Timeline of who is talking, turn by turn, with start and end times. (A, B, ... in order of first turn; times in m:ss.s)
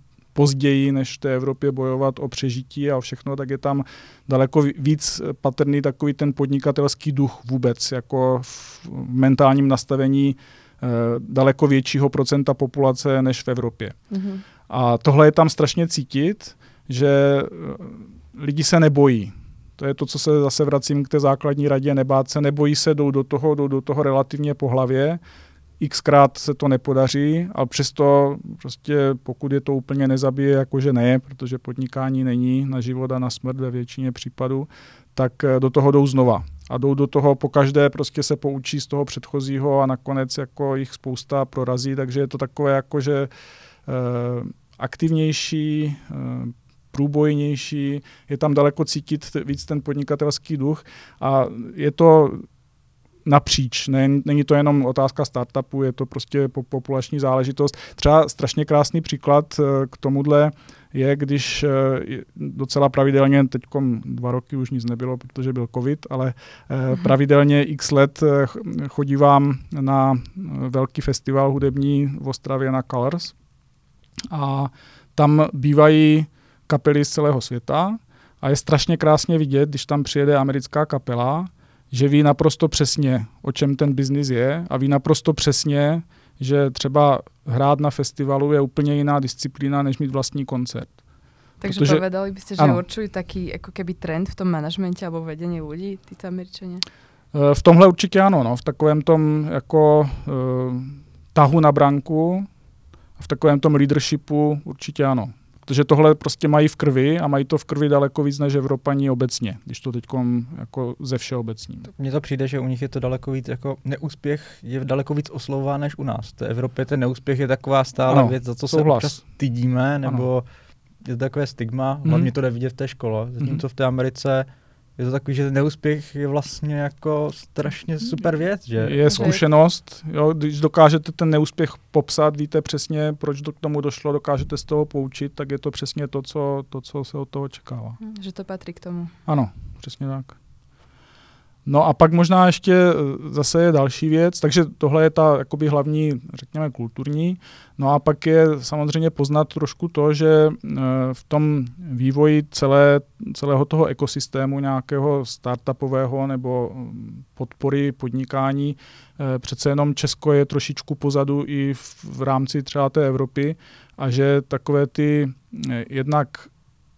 0:00.3-0:14.0 A
0:14.1-0:14.4 B
0:14.7-0:25.2 A
0:25.8-0:43.3 A
0:43.9-0:52.4 A
0:53.2-1:13.3 A
1:14.3-1:31.0 A
1:31.6-1:36.8 B
1:31.6-1:32.0 A
1:32.6-1:32.8 A
1:37.3-1:42.5 A
1:43.2-1:51.9 A
1:51.9-2:00.4 C
1:58.1-1:59.2 A
2:01.0-2:09.1 C
2:02.0-2:02.3 A
2:08.8-2:18.0 A
2:09.0-2:09.4 B
2:18.0-2:19.1 B
2:19.2-2:20.4 A
2:21.6-2:46.5 A